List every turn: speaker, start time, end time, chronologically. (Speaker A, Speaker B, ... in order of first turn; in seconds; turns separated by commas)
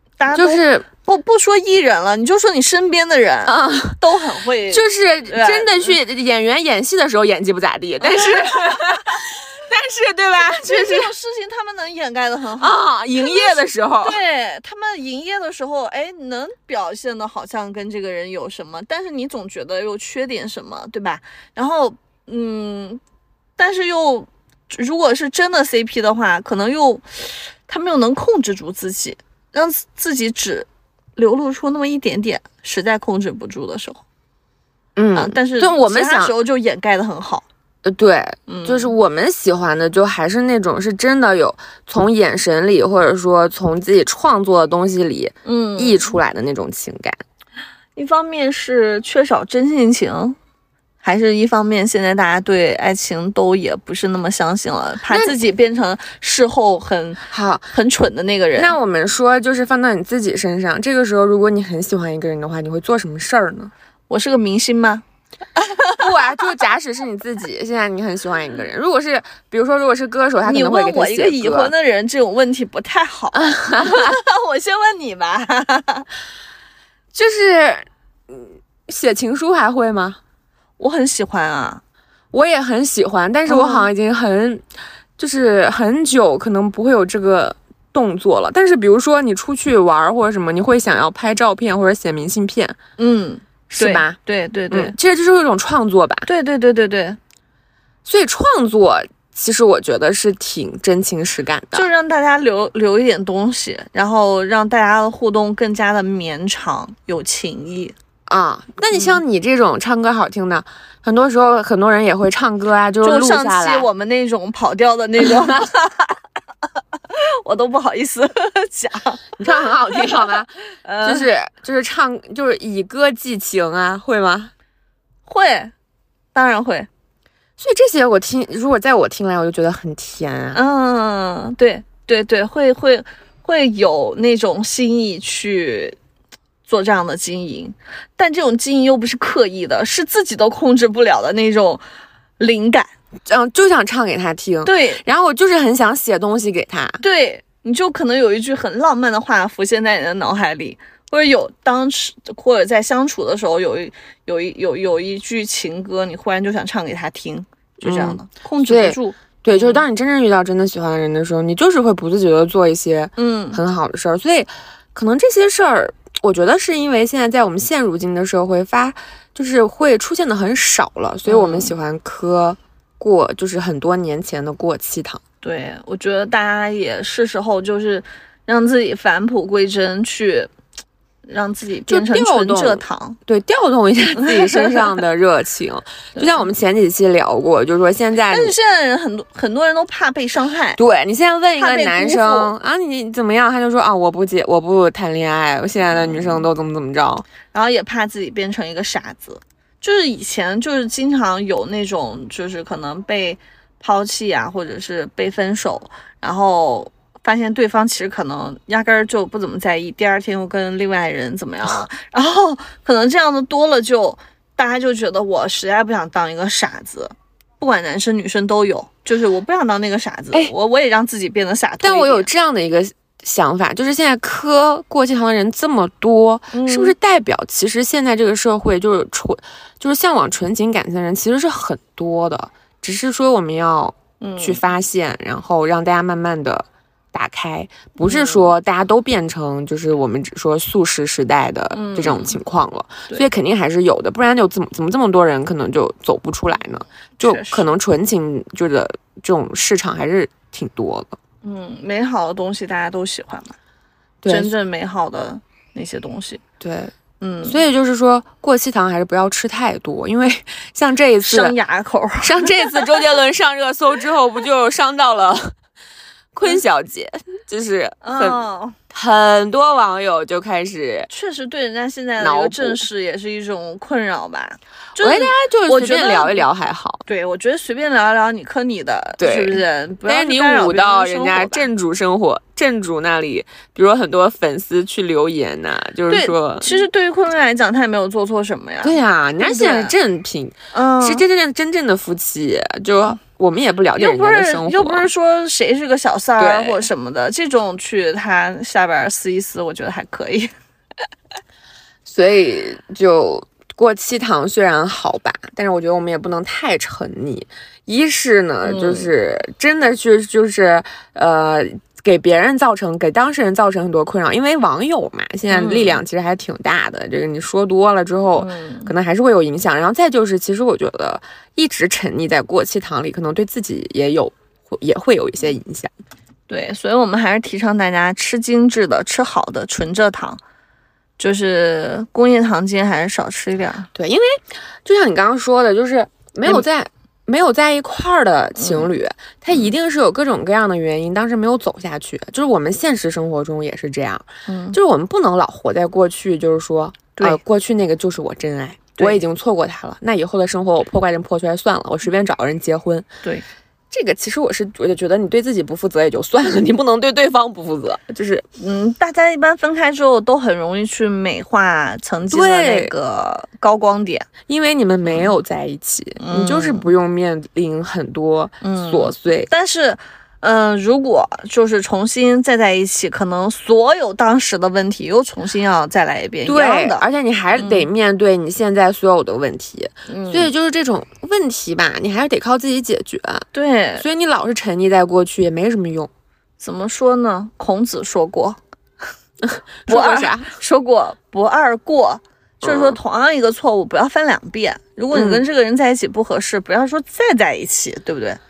Speaker A: 0.2-5.9, Speaker B: 0.3-0.8, Speaker B: 3.5-4.0, Speaker B: 4.7-11.1, Speaker A: 8.0-9.2, Speaker A: 10.5-23.0, Speaker B: 12.6-14.2, Speaker A: 23.6-34.0, Speaker B: 35.0-36.3, Speaker A: 35.1-37.4, Speaker B: 37.8-47.2, Speaker A: 38.5-38.9, Speaker A: 45.4-46.0, Speaker A: 48.0-50.4, Speaker A: 51.0-58.7, Speaker B: 55.1-55.3, Speaker B: 57.3-57.7, Speaker B: 58.5-63.7, Speaker A: 64.1-65.0, Speaker A: 65.5-66.0, Speaker B: 66.0-71.7, Speaker A: 70.4-76.0, Speaker B: 73.3-74.2, Speaker B: 77.1-80.2, Speaker A: 80.8-81.8, Speaker B: 82.3-84.6, Speaker A: 83.5-83.9, Speaker B: 85.2-92.8, Speaker A: 93.0-94.9, Speaker B: 93.7-94.2, Speaker B: 94.7-96.3, Speaker A: 96.2-97.2, Speaker B: 98.0-101.9, Speaker A: 101.7-107.9, Speaker B: 108.3-113.9, Speaker A: 108.9-109.2, Speaker A: 113.0-116.2, Speaker B: 115.2-115.6, Speaker A: 117.1-120.3, Speaker B: 119.4-124.5, Speaker A: 120.8-121.3, Speaker A: 125.3-125.7, Speaker A: 126.3-126.9, Speaker B: 127.6-130.6, Speaker A: 130.5-136.0, Speaker A: 136.7-141.8, Speaker A: 142.4-142.9, Speaker B: 143.3-147.0, Speaker A: 144.6-145.0, Speaker A: 147.0-159.8, Speaker B: 157.8-175.2, Speaker A: 163.2-163.6, Speaker A: 171.2-171.7, Speaker A: 175.4-180.5, Speaker A: 181.2-183.2, Speaker B: 181.9-188.5, Speaker A: 184.2-184.9, Speaker A: 186.2-186.4, Speaker A: 188.3-190.8, Speaker B: 190.8-197.2, Speaker A: 191.6-192.5, Speaker A: 195.9-196.4, Speaker A: 197.5-222.3, Speaker B: 221.8-251.2, Speaker A: 226.5-226.9, Speaker A: 234.2-234.6, Speaker A: 238.0-238.5, Speaker A: 241.7-242.3, Speaker A: 247.2-247.7, Speaker A: 251.4-253.5, Speaker B: 254.2-254.5, Speaker A: 254.3-256.4, Speaker B: 256.6-256.9, Speaker A: 257.2-257.6, Speaker B: 257.4-261.6, Speaker A: 261.2-262.9, Speaker B: 262.2-265.5, Speaker B: 266.3-271.1, Speaker A: 268.0-268.7, Speaker A: 271.1-276.5, Speaker B: 272.2-272.8, Speaker B: 275.0-277.0, Speaker A: 277.1-281.7, Speaker B: 279.2-286.8, Speaker A: 286.1-289.9, Speaker B: 288.8-295.1, Speaker A: 290.7-291.2, Speaker A: 294.0-300.5, Speaker B: 296.4-296.9, Speaker B: 302.0-325.9, Speaker A: 308.6-309.1, Speaker A: 315.5-316.0, Speaker A: 318.4-318.9, Speaker A: 326.5-330.4, Speaker A: 331.2-333.9, Speaker B: 333.9-353.1, Speaker A: 338.6-338.9, Speaker A: 344.5-344.8, Speaker A: 349.0-349.2, Speaker B: 353.9-358.4, Speaker A: 358.6-364.3, Speaker B: 362.3-362.9, Speaker B: 364.5-369.5, Speaker A: 365.1-365.3, Speaker A: 366.2-366.9, Speaker A: 368.6-377.0, Speaker B: 376.4-383.5, Speaker A: 377.6-377.9, Speaker A: 380.1-380.5, Speaker A: 383.5-384.0, Speaker B: 384.0-386.1, Speaker A: 386.6-388.6, Speaker B: 389.4-390.5, Speaker A: 389.9-398.4, Speaker B: 392.6-393.0, Speaker B: 395.1-395.4